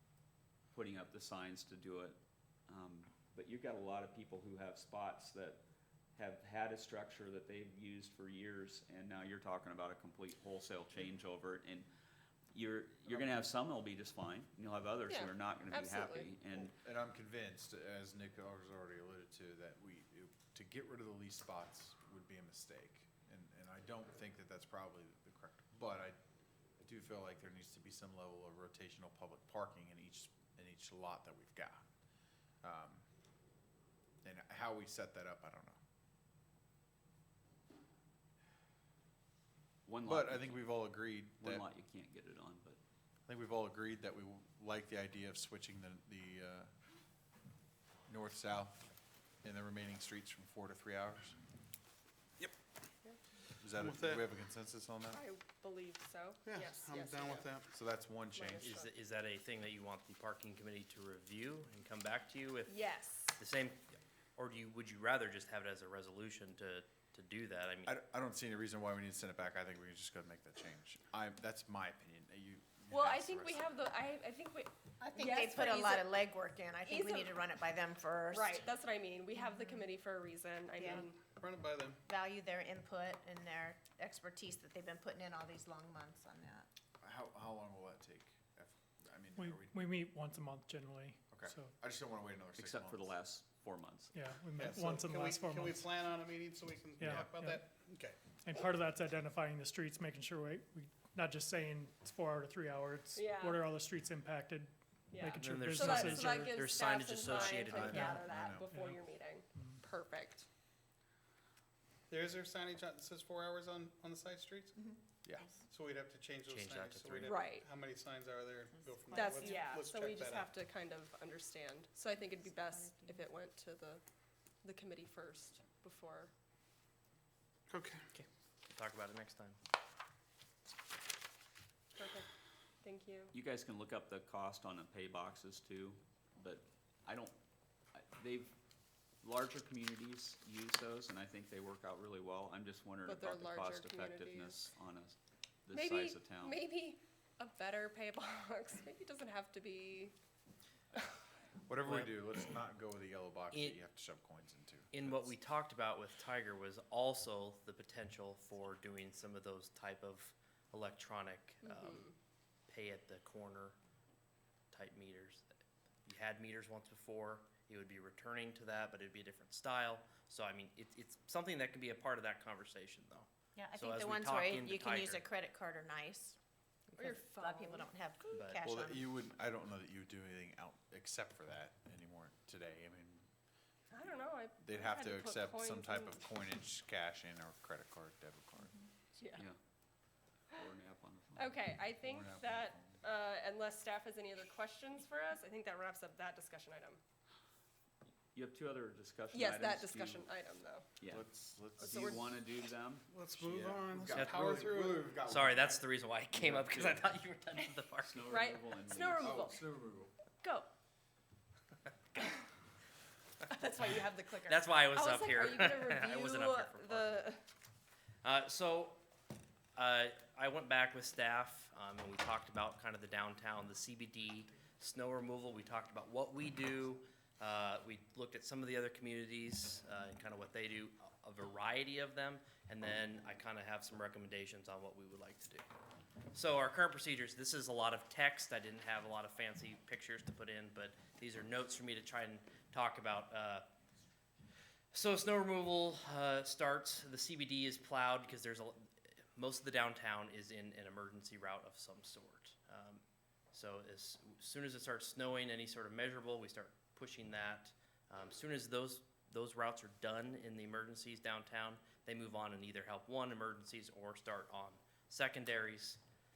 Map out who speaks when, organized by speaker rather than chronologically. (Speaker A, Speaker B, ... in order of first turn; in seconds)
Speaker A: 0.7-5.6, 6.1-11.9, 12.5-16.7, 39.9-42.8, 92.6-94.1, 133.3-137.3, 137.9-138.5, 139.2-146.6, 190.5-191.5, 198.3-200.3, 201.0-201.2, 201.8-203.1, 206.3-207.1, 208.0-209.5
Speaker B: 13.1-13.4, 16.5-26.2, 26.8-31.8, 32.6-33.0, 34.2-35.8, 40.0-41.7, 43.3-46.7, 48.1-48.9, 49.4-51.4, 53.6-55.2, 57.7-58.7, 67.8-73.6, 87.0-89.9, 91.3-93.1, 107.3-108.7, 115.2-115.5, 151.7-155.3, 178.6-183.3, 184.6-188.8, 192.0-193.0, 201.1-202.2, 203.3-205.8, 209.2-210.1
Speaker C: 15.0-16.3, 55.1-57.5, 58.3-59.0, 62.6-63.4, 72.9-76.2, 76.8-77.4, 78.3-81.2, 103.1-103.7, 105.1-110.5, 117.2-117.7, 119.1-124.0, 124.6-126.3, 131.9-132.3, 132.8-133.3, 143.0-144.6, 145.7-150.1, 161.6-162.1, 177.0-177.9, 183.9-186.2, 189.2-189.4, 191.3-197.0, 199.3-200.8, 201.8-202.3, 208.3-209.6, 210.4-210.7, 213.4-217.4
Speaker D: 53.8-54.2, 56.5-57.5, 81.3-82.0, 94.6-98.2, 112.1-114.7, 115.7-120.4, 127.7-128.0, 203.1-205.1
Speaker E: 58.6-62.8, 63.4-68.0, 105.4-107.9, 116.5-117.4, 128.1-129.6, 151.8-152.2, 153.5-153.8, 154.9-162.1, 162.7-163.8, 164.7-165.5, 166.1-175.2, 178.3-178.6, 204.1-204.5, 205.2-208.3, 214.4-217.1, 218.2-219.0, 219.8-235.6, 236.3-243.6, 244.9-253.0, 253.5-266.0
Speaker F: 75.0-78.7, 82.1-86.7, 173.6-176.4, 177.0-179.1
Speaker G: 89.3-91.7, 94.1-96.0, 97.0-97.6, 98.4-106.6, 107.8-109.0